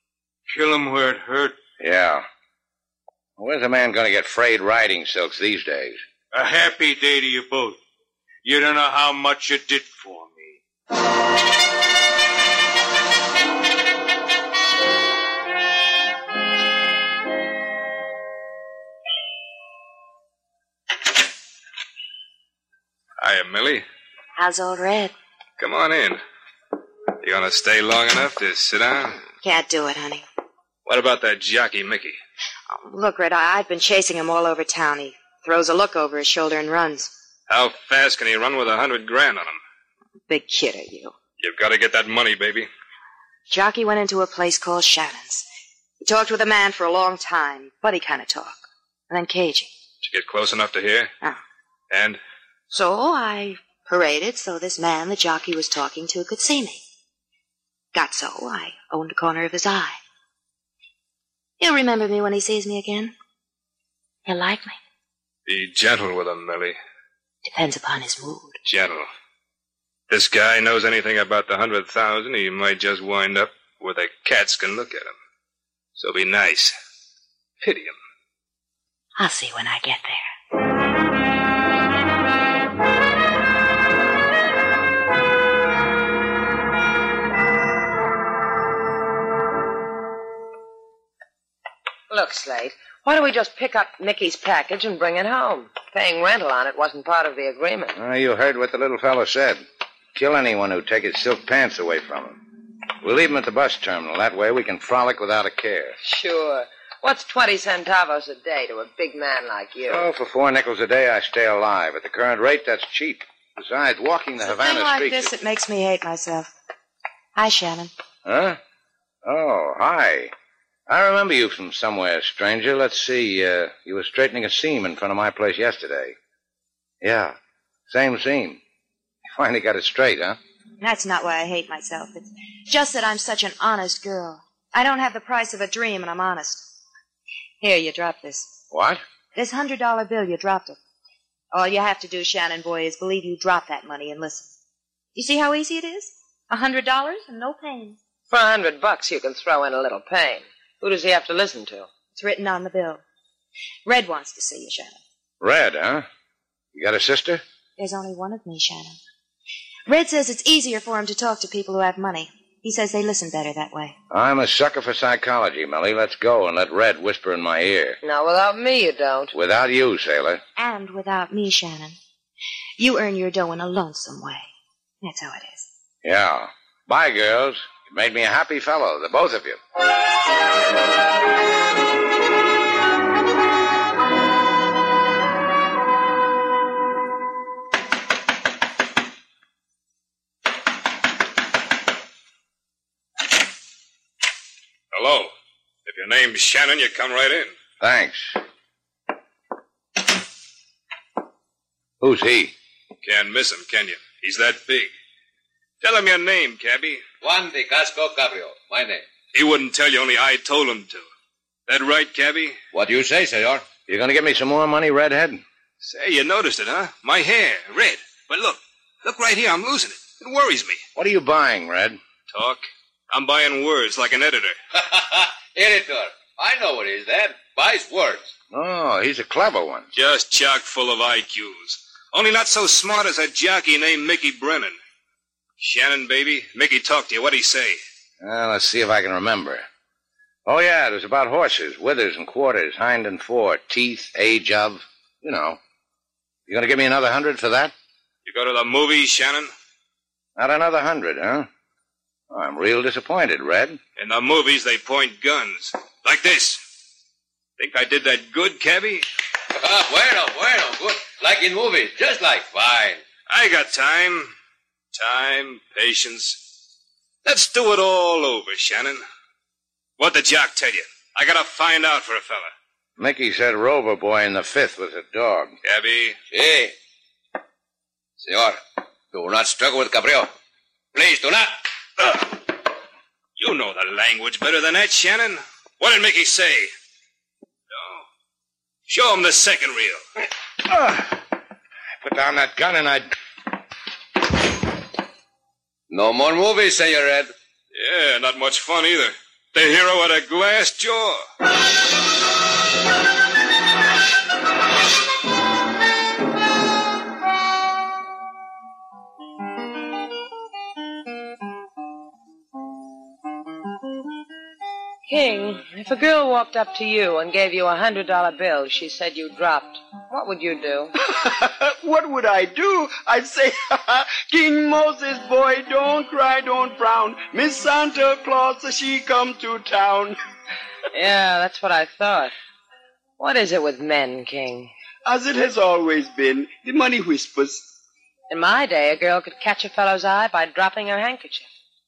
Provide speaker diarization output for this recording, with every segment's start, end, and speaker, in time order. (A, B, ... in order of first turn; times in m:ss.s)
0:00.5-0:01.6 A
0:01.8-0:02.2 B
0:03.4-0:06.0 B
0:06.3-0:07.8 A
0:08.4-0:10.6 A
0:23.2-0:23.8 C
0:24.4-0:25.1 D
0:25.6-0:26.2 C
0:27.2-0:29.2 C
0:29.4-0:30.2 D
0:30.8-0:32.2 C
0:32.8-0:37.1 D
0:37.5-0:39.6 C
0:40.3-0:41.1 D
0:41.4-0:42.7 C
0:43.5-0:45.4 D
0:46.0-0:49.7 D
0:50.0-0:51.1 C
0:51.9-0:52.2 C
0:52.7-0:56.8 D
0:57.9-1:00.0 D
1:01.6-1:03.1 D
1:04.2-1:04.8 D
1:05.4-1:06.8 C
1:07.4-1:08.6 D
1:08.6-1:09.1 C
1:10.1-1:15.1 C
1:16.0-1:16.7 C
1:17.6-1:18.0 C
1:19.2-1:20.2 D
1:32.1-1:37.9 E
1:37.9-1:39.6 B
1:40.1-1:42.4 B
1:43.0-1:46.0 B
1:46.0-1:50.0 E
1:49.9-1:55.3 B
1:54.4-1:56.5 D
1:57.4-1:57.9 D
1:58.2-1:58.6 B
1:59.2-2:00.3 B
2:00.9-2:06.2 B
2:07.0-2:07.4 B
2:07.9-2:08.6 B
2:09.3-2:10.4 B
2:10.8-2:16.6 D
2:17.6-2:18.6 D
2:18.7-2:19.0 B
2:19.3-2:20.8 D
2:21.5-2:24.6 D
2:25.1-2:28.0 D
2:28.3-2:31.9 E
2:32.1-2:33.0 D
2:33.8-2:35.0 D
2:35.4-2:36.1 B
2:36.7-2:37.4 B
2:37.8-2:39.0 D
2:39.9-2:43.9 D
2:44.1-2:48.0 B
2:48.0-2:49.3 E
2:49.3-2:50.4 B
2:50.6-2:52.0 D
2:52.8-2:54.5 D
2:55.0-2:55.7 D
2:56.0-2:59.6 B
3:14.9-3:15.3 C
3:15.8-3:17.5 C
3:17.8-3:18.4 B
3:22.0-3:22.5 B
3:23.0-3:24.9 C
3:25.8-3:27.0 C
3:27.2-3:29.0 F
3:29.3-3:31.0 C
3:31.7-3:32.6 C
3:32.7-3:33.7 F
3:33.8-3:35.4 B
3:35.8-3:40.8 C
3:40.9-3:42.0 B
3:42.3-3:44.6 C
3:44.7-3:48.3 F
3:48.5-3:49.9 B
3:49.9-3:54.8 C
3:55.6-3:57.8 C
3:58.2-3:59.6 B
4:00.4-4:05.6 B
4:06.5-4:07.7 B
4:08.2-4:09.5 C
4:10.4-4:11.5 B
4:12.3-4:13.8 B
4:14.0-4:16.6 C
4:17.6-4:19.0 C
4:19.5-4:23.0 F
4:23.3-4:24.3 C
4:24.9-4:26.4 C
4:27.2-4:29.0 C
4:30.0-4:32.5 C
4:33.0-4:35.5 B
4:35.6-4:36.2 C
4:36.3-4:36.7 F
4:38.2-4:38.6 F
4:39.1-4:40.3 F
4:40.9-4:41.6 F
4:43.4-4:46.7 C
4:47.7-4:48.0 C
4:48.9-4:50.0 C
4:50.7-4:51.1 B
4:52.0-4:53.1 B
4:55.9-4:57.3 F
4:57.7-5:01.2 C
5:15.1-5:20.9 E
5:21.0-5:30.2 G
5:30.9-5:32.3 E
5:33.2-5:34.7 E
5:35.0-5:37.6 G
5:38.3-5:41.5 E